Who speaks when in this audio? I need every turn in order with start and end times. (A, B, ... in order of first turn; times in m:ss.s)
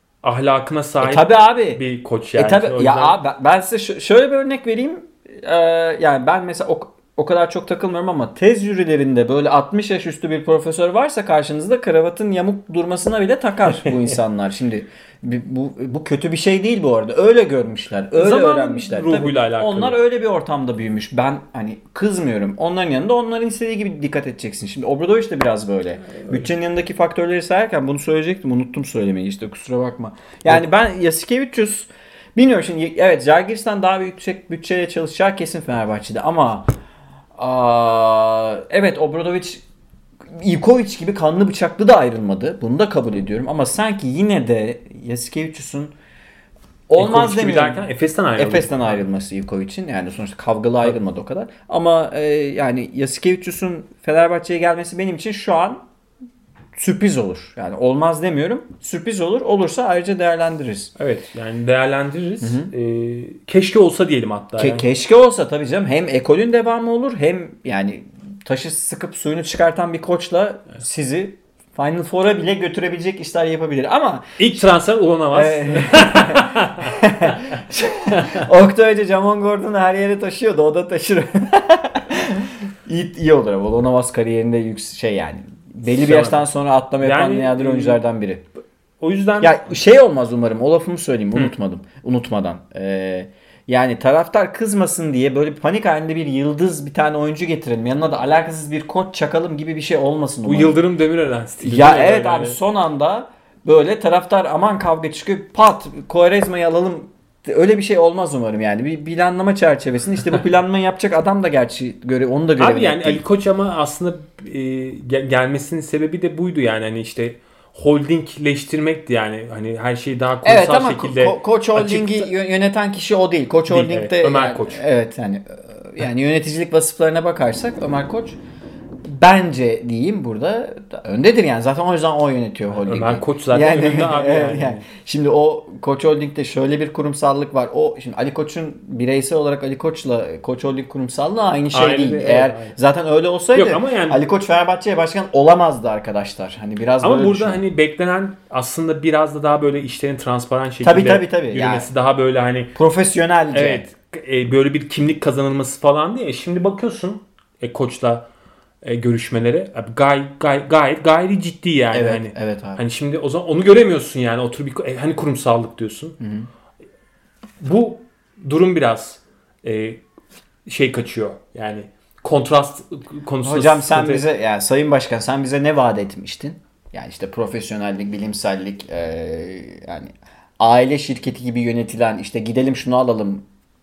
0:00.2-0:03.2 A
0:01.0-0:01.8 B
0:02.3-0:36.7 B
0:18.1-0:20.0 A
0:37.4-0:39.6 B
0:40.3-0:45.9 B
0:46.9-0:55.8 B
0:47.0-0:49.0 A
0:56.8-1:00.9 B
1:01.0-1:04.8 A
1:02.4-1:02.7 B
1:04.6-1:14.6 B
1:14.4-1:16.9 A
1:15.3-1:28.4 B
1:18.1-1:18.4 A
1:25.9-1:26.4 A
1:27.0-1:28.0 A
1:29.0-1:29.6 A
1:29.4-1:40.8 B
1:40.4-1:42.6 A
1:41.6-1:53.2 B
1:52.6-2:02.3 A
2:00.4-2:08.4 B
2:03.7-2:04.8 A
2:09.0-2:27.6 B
2:12.8-2:14.8 A
2:21.7-2:22.7 A
2:23.5-2:24.2 A
2:27.0-2:32.7 A
2:30.8-2:31.9 B
2:32.8-2:33.9 B
2:33.5-2:38.2 A
2:38.8-2:46.2 A
2:41.9-2:42.8 B
2:46.2-2:46.5 B
2:47.6-2:50.0 A
2:50.6-2:54.2 A
2:53.4-3:03.4 B